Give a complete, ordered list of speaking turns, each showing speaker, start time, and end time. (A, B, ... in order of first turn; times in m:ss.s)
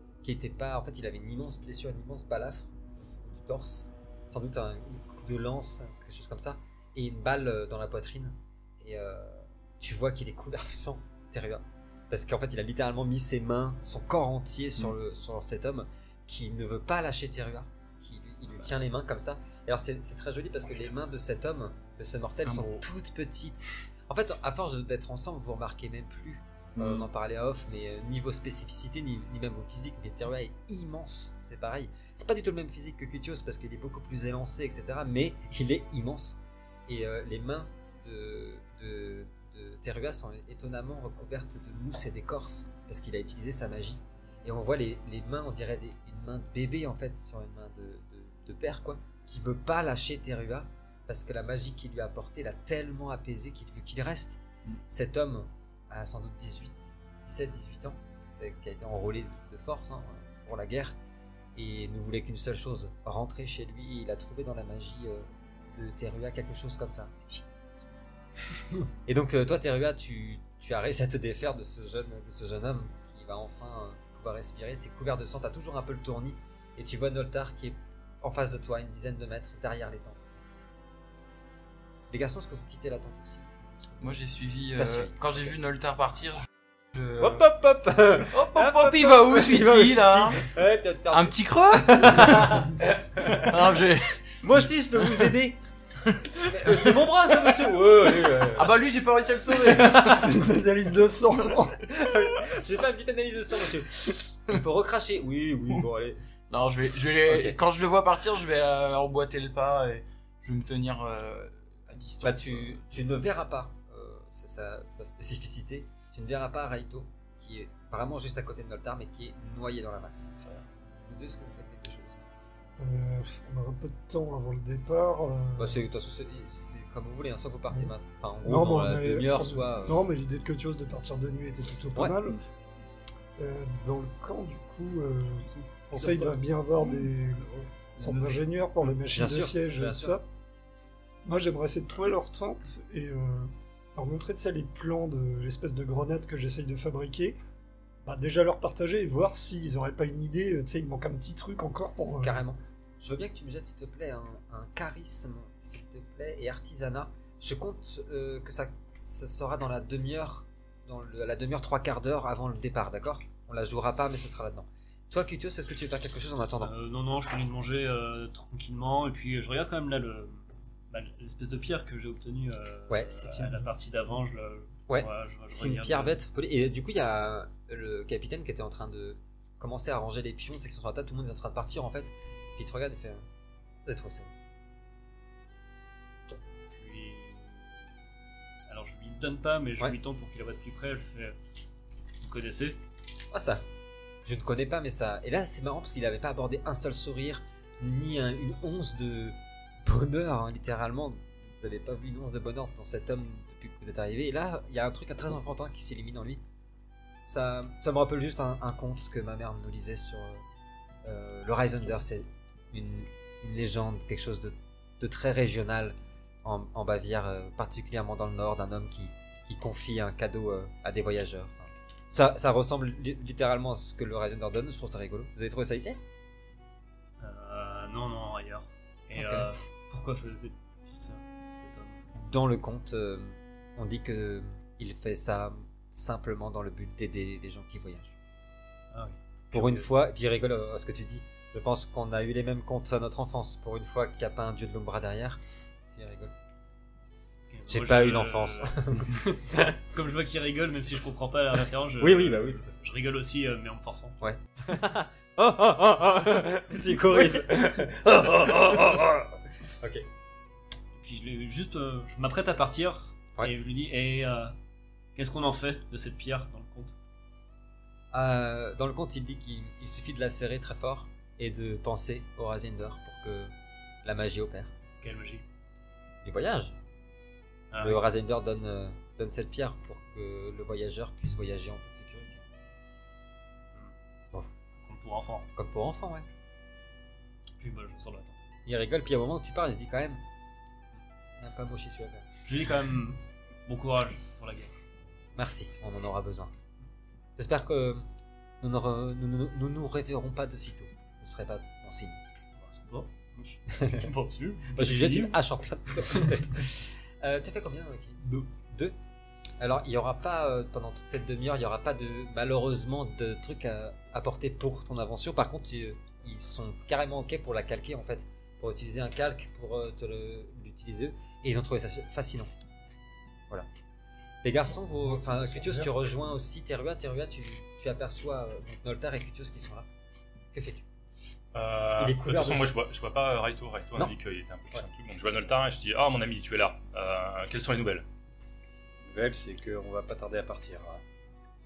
0:00.2-1:01.0 A
0:20.6-0:21.0 B
0:22.4-0:22.8 B
0:26.8-0:27.1 C
1:01.6-1:07.2 A
1:09.1-1:20.4 A
1:22.1-1:24.2 A
1:24.0-1:27.4 B
1:24.7-1:25.5 A
1:27.2-1:33.6 A
1:28.3-1:30.5 B
1:31.1-1:34.6 B
1:34.4-1:35.6 A
1:36.1-1:40.3 B
1:36.4-1:38.7 A
1:39.7-1:40.4 A
1:39.8-1:41.8 D
1:41.8-1:46.2 A
1:46.5-1:53.2 B
1:47.3-1:47.6 A
1:52.2-2:00.3 A
2:01.1-2:02.2 A
2:02.8-2:05.8 D
2:05.6-2:10.0 A
2:08.4-2:12.4 D
2:13.4-2:20.3 D
2:18.0-2:18.4 C
2:19.1-2:20.2 A
2:21.2-2:27.4 D
2:28.0-2:32.5 D
2:32.2-2:46.7 A
2:46.6-2:56.2 E
2:52.9-2:53.7 A
2:54.9-3:03.3 A
3:03.9-3:04.3 A
3:06.8-3:07.9 E
3:08.7-3:11.4 E
3:12.2-3:12.8 E
3:13.3-3:13.6 A
3:14.2-3:26.4 A
3:27.3-3:30.4 A
3:31.0-3:46.0 A
3:47.2-3:52.0 E
3:49.1-3:49.5 A
3:52.2-3:58.1 A
3:58.9-3:59.9 E
3:59.5-4:05.4 A
4:05.9-4:06.3 A
4:07.5-4:14.2 E
4:07.7-4:09.8 A
4:12.0-4:12.7 A
4:14.2-4:20.1 A
4:21.0-4:24.6 E
4:25.2-4:26.9 E
4:28.1-4:34.7 A
4:35.0-4:35.4 E
4:36.2-4:36.8 A
4:37.7-4:38.0 E
4:37.8-4:42.5 A
4:44.8-4:45.5 E
4:45.6-4:46.3 A
4:47.6-4:48.5 E
4:48.7-4:50.2 A
4:51.4-4:52.3 A
4:52.5-4:54.7 E
4:55.4-4:56.5 A
4:57.4-4:58.1 A
4:58.6-5:02.2 A
5:02.6-5:05.4 E
5:04.8-5:09.0 A
5:06.1-5:06.4 E
5:09.6-5:22.5 A
5:24.4-5:29.9 A
5:25.0-5:25.9 D
5:30.5-5:30.8 A
5:31.5-5:38.1 F
5:32.0-5:32.8 A
5:39.1-5:41.0 C